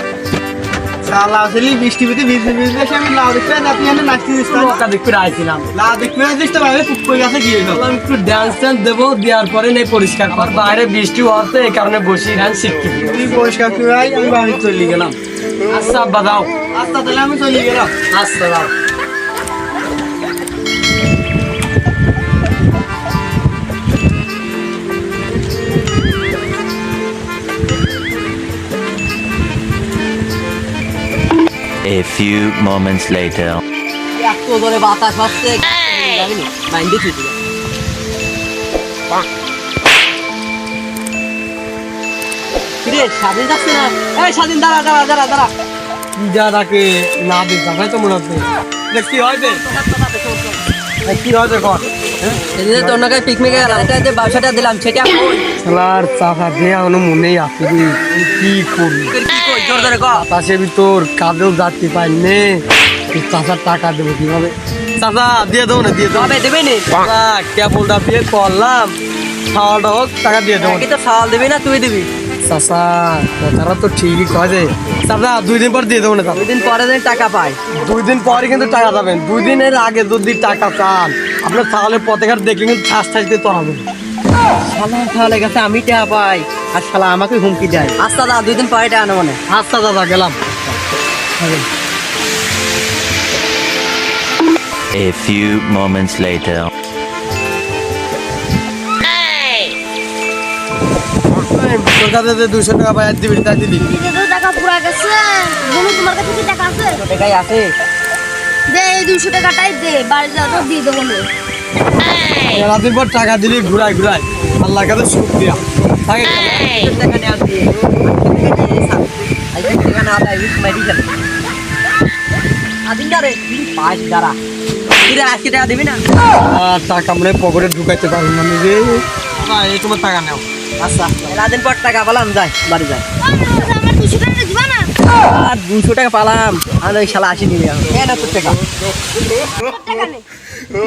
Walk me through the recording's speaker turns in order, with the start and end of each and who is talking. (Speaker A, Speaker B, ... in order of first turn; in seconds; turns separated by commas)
Speaker A: 1.0-4.9, Speaker B: 4.5-5.7, Speaker A: 5.7-7.8, Speaker B: 7.7-13.1, Speaker A: 13.1-15.2, Speaker B: 15.7-16.5, Speaker A: 16.7-17.9, Speaker B: 18.1-18.7, Speaker C: 31.9-33.6, Speaker D: 34.1-37.4, Speaker D: 42.8-45.5, Speaker B: 46.2-49.6, Speaker D: 49.5-50.5, Speaker B: 51.0-51.9, Speaker D: 52.3-55.3, Speaker B: 52.5-53.9, Speaker B: 55.6-59.1, Speaker D: 59.1-60.2, Speaker B: 59.8-66.4, Speaker D: 66.1-66.9, Speaker B: 66.9-69.0, Speaker B: 69.5-70.9, Speaker D: 70.6-72.1, Speaker B: 72.4-76.5, Speaker D: 76.3-77.6, Speaker B: 77.7-83.9, Speaker D: 84.7-89.4, Speaker B: 89.5-90.4, Speaker C: 94.9-96.7, Speaker B: 101.3-103.9, Speaker E: 103.8-107.0, Speaker D: 106.9-107.7, Speaker E: 108.7-111.3, Speaker B: 112.5-116.7, Speaker D: 116.3-121.1, Speaker D: 122.8-124.4, Speaker D: 125.0-126.0, Speaker B: 126.5-130.4, Speaker D: 130.8-133.1, Speaker E: 133.2-134.9, Speaker D: 135.3-138.6, Speaker E: 139.5-140.2